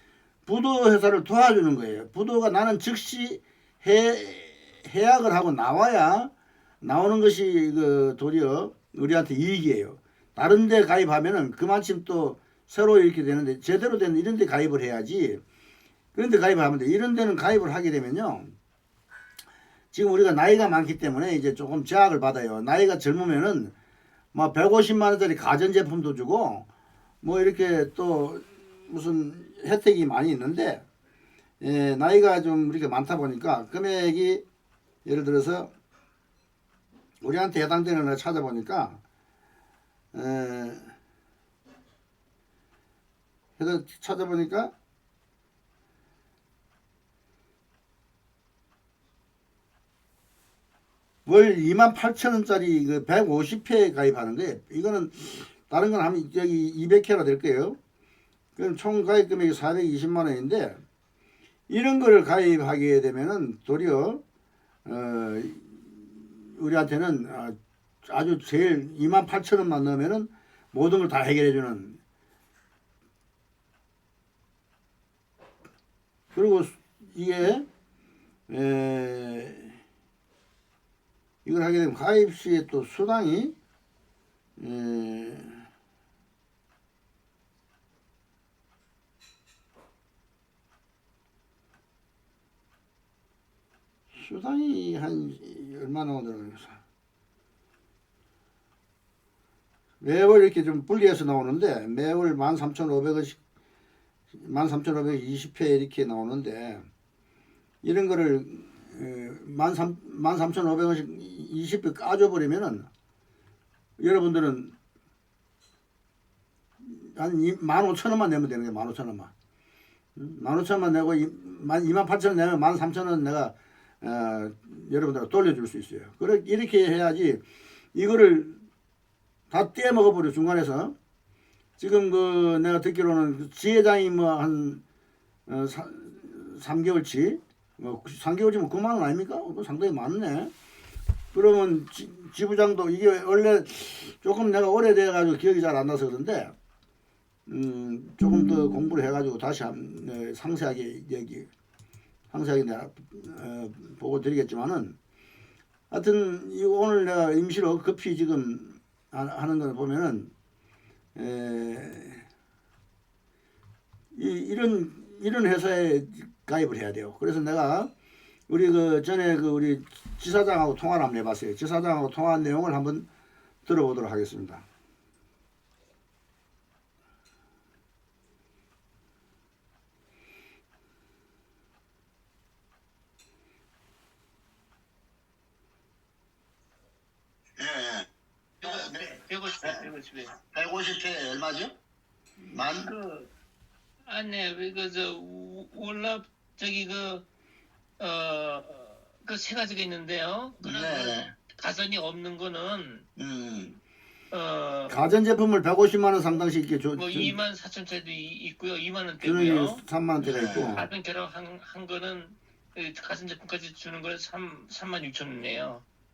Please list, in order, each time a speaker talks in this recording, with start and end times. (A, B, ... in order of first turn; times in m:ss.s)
0:00.5-0:15.4 A
0:16.2-0:18.6 A
0:19.9-0:23.7 A
0:24.3-0:26.7 A
0:27.2-0:30.8 A
0:31.6-0:34.4 A
0:35.0-0:35.7 A
0:37.2-0:39.0 A
0:40.1-0:40.9 A
0:43.6-0:44.7 A
0:51.3-0:57.8 A
0:58.6-1:00.8 A
1:01.7-1:04.2 A
1:04.8-1:12.0 A
1:16.3-1:17.7 A
1:18.5-1:19.8 A
1:21.4-1:23.6 A
1:24.6-1:25.7 A
1:34.1-1:36.8 A
1:40.0-1:43.4 A
1:44.3-1:46.8 A
1:47.8-1:52.9 A
1:54.0-1:54.8 A
1:56.8-1:59.3 A
2:00.2-2:07.4 A
2:08.0-2:08.6 A
2:09.5-2:11.0 A
2:11.8-2:14.8 A
2:15.5-2:20.5 A
2:21.3-2:26.5 A
2:27.5-2:31.5 A
2:28.3-2:28.5 B
2:32.3-2:35.0 A
2:35.9-2:40.3 A
2:41.2-2:42.2 A
2:44.1-2:47.9 A
2:48.5-2:53.1 A
2:53.6-2:54.6 A
3:07.6-3:08.1 B
3:08.6-3:10.4 C
3:08.6-3:09.8 B
3:10.5-3:11.7 B
3:12.4-3:12.9 B
3:12.6-3:13.3 C
3:14.1-3:17.2 C
3:18.0-3:23.1 C
3:20.6-3:21.3 B
3:23.2-3:23.8 B
3:24.3-3:25.1 C
3:24.9-3:27.4 A
3:27.0-3:29.8 C
3:29.2-3:30.9 A
3:30.2-3:30.8 B
3:30.7-3:35.8 C